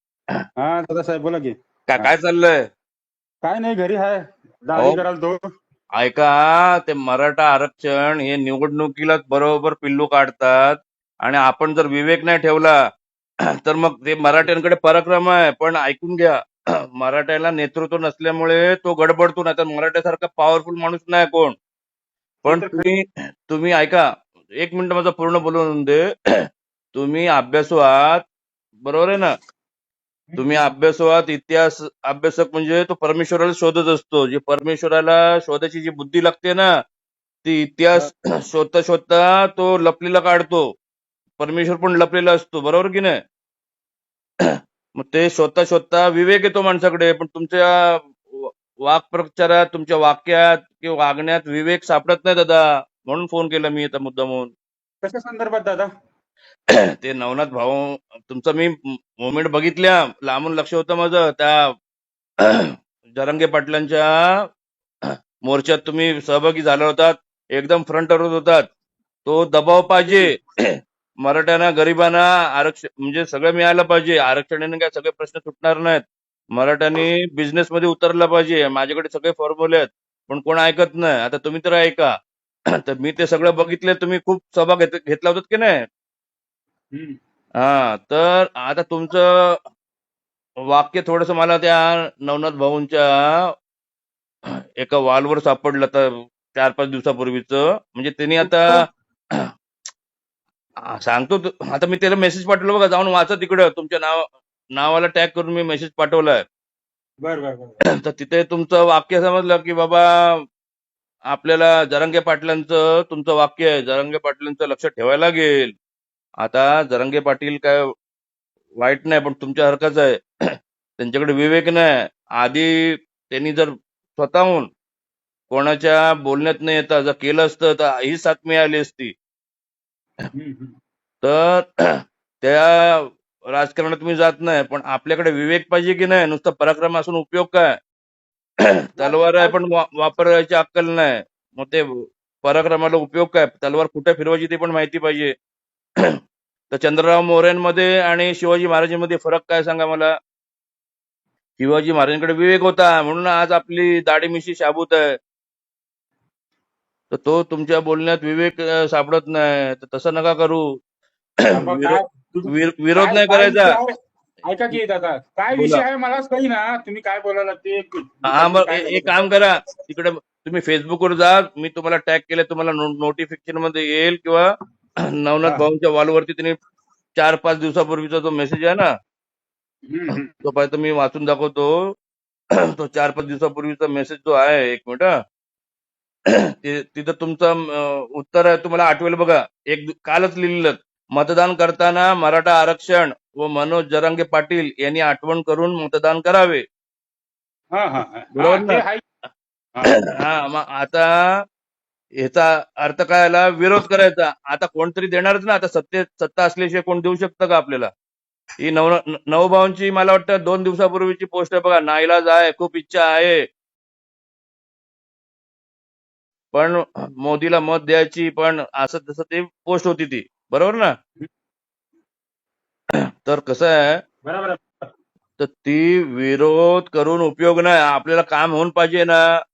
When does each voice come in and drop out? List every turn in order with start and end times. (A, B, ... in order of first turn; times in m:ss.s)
0:00.6-0:02.1 A
0:01.9-0:02.6 B
0:03.4-0:05.4 A
0:04.8-0:05.0 B
0:06.0-0:12.7 B
0:13.6-0:16.4 B
0:17.0-0:21.6 B
0:22.4-0:22.8 A
0:22.4-0:24.0 B
0:24.6-0:26.0 B
0:26.9-0:28.2 B
0:28.8-0:29.3 B
0:30.4-0:36.7 B
0:37.4-0:40.6 B
0:41.4-0:43.2 B
0:44.4-0:54.5 B
0:55.0-0:55.9 A
0:56.9-1:01.7 B
1:02.4-1:04.4 B
1:05.1-1:08.7 B
1:09.2-1:22.1 B
1:22.8-1:25.8 B
1:27.6-1:29.6 B
1:30.7-1:33.5 B
1:34.8-1:38.8 B
1:38.4-1:38.8 A
1:40.9-1:46.4 B
1:47.2-1:47.8 A
1:47.9-1:50.4 B
1:51.3-1:55.8 B
1:56.4-1:57.8 B
1:58.8-2:00.2 B
2:01.0-2:04.7 B
2:05.5-2:09.1 B
2:10.4-2:10.8 A
2:11.2-2:17.7 B
2:18.6-2:25.3 B
2:19.0-2:19.6 A
2:26.7-2:30.1 B
2:31.6-2:35.2 B
2:37.1-2:40.8 B
2:41.5-2:43.8 B
2:41.5-2:43.9 A
2:44.5-2:49.1 A
2:45.5-2:45.8 B
2:48.3-2:54.4 B
2:55.2-2:56.6 B
2:57.2-2:58.9 B
2:59.9-3:00.3 A
3:00.4-3:01.7 B
3:02.7-3:05.1 B
3:06.3-3:16.6 B
3:17.7-3:19.0 A
3:18.4-3:18.8 B
3:19.9-3:21.1 B
3:22.2-3:27.9 B
3:28.6-3:33.5 B
3:36.5-3:40.9 B
3:43.2-3:43.9 B
3:44.2-3:44.7 A
3:45.4-3:49.2 B